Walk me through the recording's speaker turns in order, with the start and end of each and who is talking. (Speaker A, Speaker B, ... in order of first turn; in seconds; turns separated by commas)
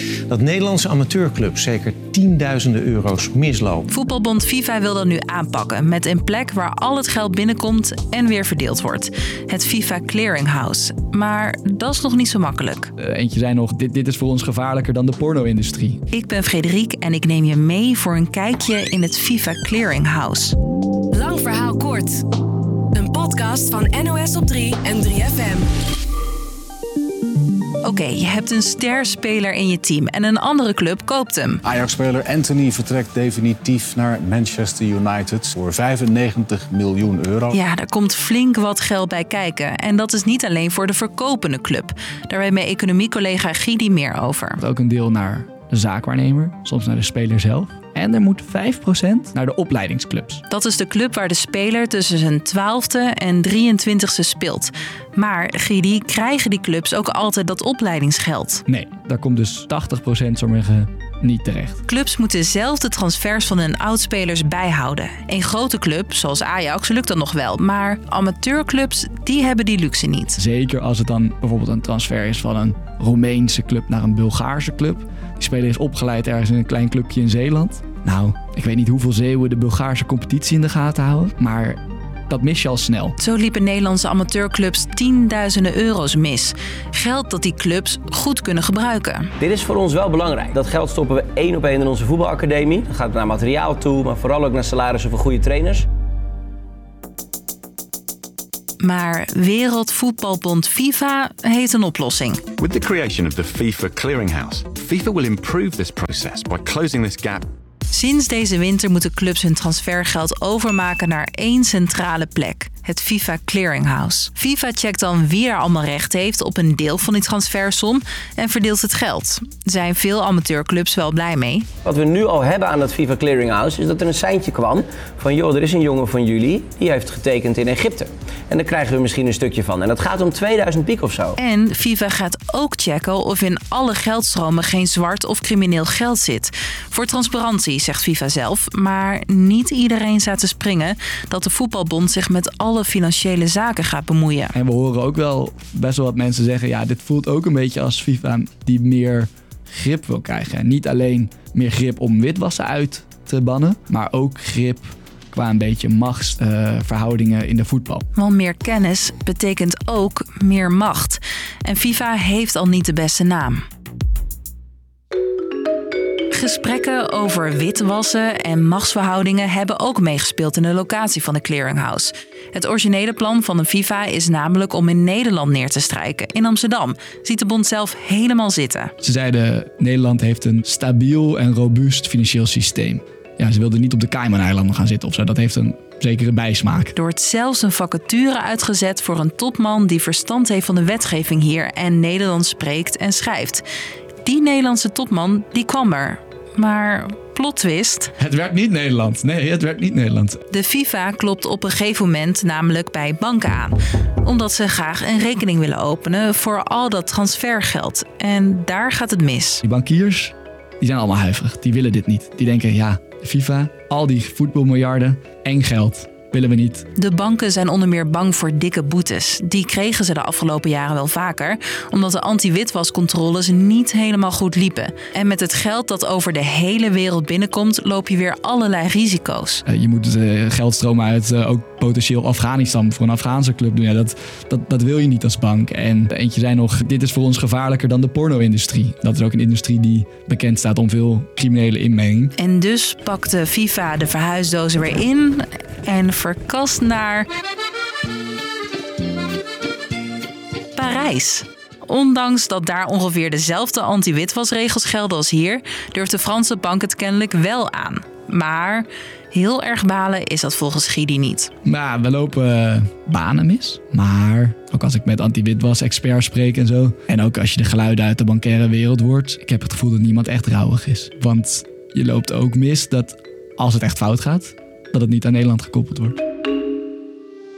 Speaker A: 0.3-3.7, Speaker B: 3.9-12.9, Speaker C: 13.0-16.0, Speaker B: 16.1-20.6, Speaker D: 21.2-21.9, Speaker D: 23.0-25.6, Speaker B: 27.8-31.6, Speaker E: 31.6-37.6, Speaker B: 37.5-44.6, Speaker C: 44.6-50.4, Speaker B: 50.5-58.6, Speaker C: 58.7-61.8, Speaker B: 61.9-70.4, Speaker C: 70.4-83.2, Speaker B: 83.2-89.3, Speaker F: 89.4-95.9, Speaker B: 98.8-102.4, Speaker G: 102.6-107.5, Speaker B: 107.9-121.7, Speaker F: 121.8-131.4, Speaker B: 131.4-144.5, Speaker C: 144.5-158.1, Speaker B: 158.2-163.6, Speaker B: 166.3-178.9, Speaker C: 179.0-186.9, Speaker B: 186.9-193.6, Speaker B: 194.2-198.1, Speaker C: 198.2-200.4, Speaker B: 200.5-209.6, Speaker C: 209.6-216.9, Speaker B: 217.0-229.6, Speaker C: 229.7-242.3, Speaker B: 242.4-247.3, Speaker B: 250.8-261.5, Speaker C: 261.6-276.2